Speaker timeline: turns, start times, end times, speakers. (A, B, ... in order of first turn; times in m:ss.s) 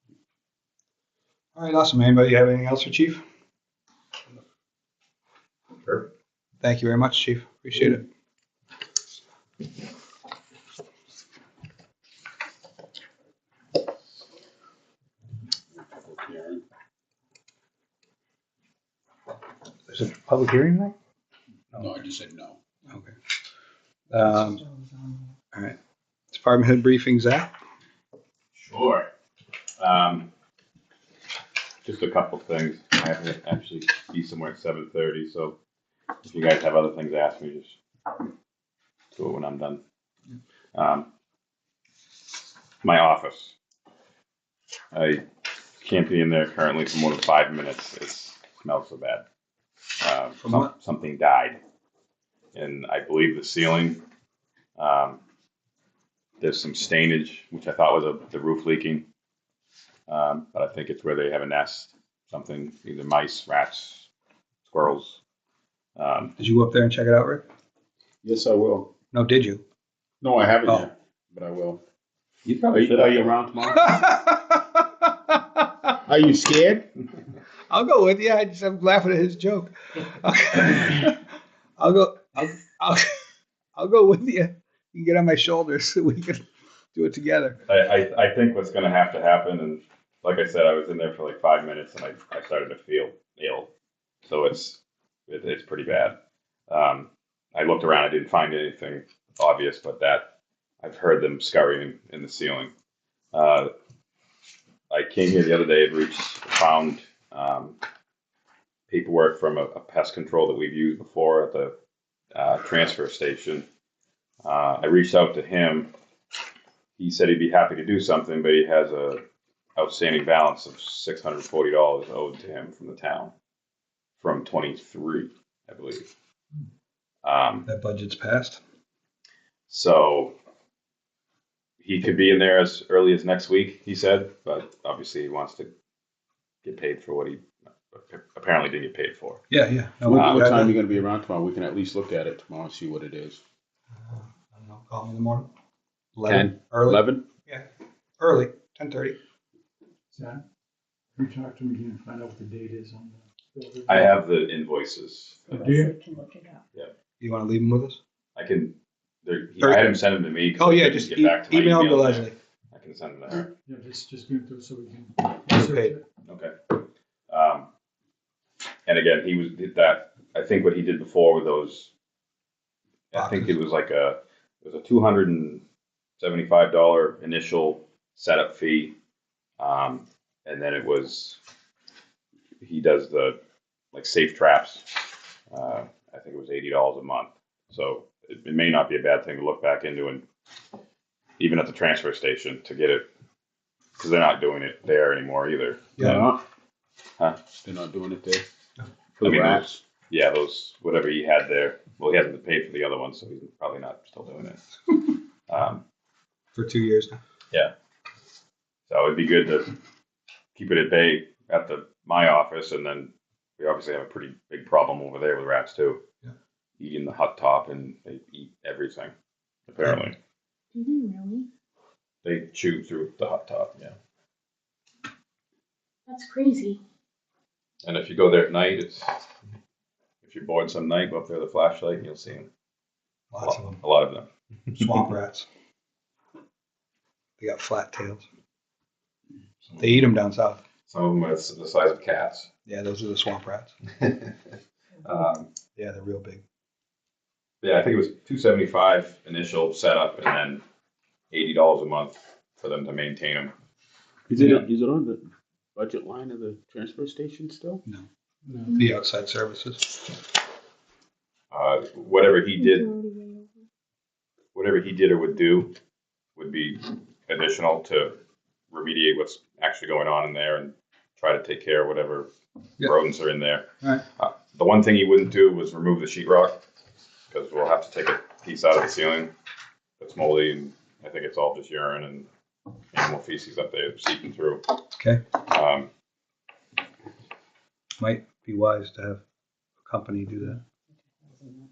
0:01.6-0:03.2 A
0:06.6-0:08.0 A
0:15.8-0:16.6 B
0:19.9-0:20.9 A
0:21.7-0:22.6 B
0:24.1-0:24.6 A
0:24.7-0:25.2 C
0:26.3-0:27.5 A
0:28.6-0:29.0 B
0:29.8-0:30.3 D
0:31.8-0:35.6 D
0:36.2-0:37.8 D
0:39.1-0:39.8 D
0:40.7-0:41.1 D
0:42.8-0:43.5 D
0:44.9-0:45.2 D
0:45.8-0:49.2 D
0:50.0-0:51.6 D
0:50.4-0:50.7 A
0:52.5-0:54.0 D
0:54.8-0:55.2 D
0:56.4-0:59.0 D
1:00.1-1:04.1 D
1:04.6-1:05.2 D
1:06.0-1:06.3 D
1:06.4-1:07.4 A
1:08.2-1:08.9 B
1:09.1-1:09.6 A
1:10.2-1:11.8 B
1:12.4-1:13.4 D
1:12.7-1:13.9 B
1:13.8-1:15.6 A
1:16.0-1:16.9 B
1:17.7-1:21.2 A
1:21.8-1:23.2 A
1:23.8-1:26.4 A
1:26.9-1:27.6 A
1:27.7-1:33.7 D
1:34.2-1:36.2 D
1:36.7-1:40.3 D
1:40.8-1:42.7 D
1:43.3-1:43.7 D
1:44.9-1:47.8 D
1:48.9-1:51.7 D
1:52.3-1:53.6 D
1:54.4-1:55.9 D
1:57.0-1:59.2 D
1:59.8-2:03.3 D
2:04.2-2:06.1 D
2:07.2-2:07.7 D
2:07.6-2:08.6 A
2:09.7-2:10.3 D
2:11.8-2:15.7 D
2:16.6-2:19.4 D
2:19.5-2:20.8 A
2:20.0-2:23.4 B
2:20.1-2:20.4 D
2:24.0-2:25.5 A
2:26.2-2:27.7 A
2:26.2-2:27.2 B
2:28.2-2:29.2 A
2:30.1-2:30.4 E
2:31.2-2:34.2 E
2:33.9-2:35.4 D
2:35.5-2:36.6 C
2:35.5-2:36.0 E
2:37.2-2:38.0 A
2:38.4-2:43.5 D
2:39.6-2:39.8 A
2:40.5-2:42.3 A
2:43.6-2:46.0 E
2:45.5-2:46.0 A
2:46.2-2:47.7 D
2:48.9-2:51.9 D
2:53.1-2:55.6 D
2:53.1-2:53.5 A
2:56.2-2:58.9 D
2:59.6-3:01.4 D
3:02.6-3:03.4 D
3:03.9-3:04.9 D
3:05.5-3:10.2 D
3:11.4-3:13.0 D
3:14.0-3:16.2 D
3:16.0-3:16.2 A
3:16.0-3:16.4 B
3:17.6-3:18.4 B
3:19.2-3:19.8 B
3:19.2-3:24.6 D
3:25.5-3:25.8 D
3:26.5-3:27.2 A
3:28.9-3:29.8 D
3:30.5-3:36.0 D
3:36.8-3:39.1 D
3:39.7-3:40.2 D
3:40.7-3:41.4 C
3:42.2-3:43.9 D
3:46.1-3:46.8 C
3:47.8-3:49.2 D
3:50.2-3:52.5 D
3:53.3-3:53.8 A
3:53.4-3:54.3 D
3:54.7-3:55.5 A
3:57.4-3:58.2 A
3:59.6-4:00.0 D
3:59.8-4:00.6 A
4:00.9-4:02.5 D
4:02.6-4:03.7 A
4:04.0-4:04.3 D
4:05.0-4:05.5 D
4:05.8-4:06.4 A
4:07.6-4:10.6 D
4:11.3-4:13.5 D
4:14.3-4:17.8 B
4:18.7-4:19.9 A
4:21.5-4:22.9 D
4:22.6-4:23.6 C
4:24.5-4:25.7 D
4:26.4-4:28.2 D
4:28.7-4:32.3 D
4:32.8-4:36.6 D
4:37.3-4:39.3 D
4:40.0-4:42.3 D
4:42.9-4:44.6 D
4:45.0-4:45.2 A
4:45.4-4:45.9 D
4:48.0-4:49.2 A
4:49.8-4:50.6 A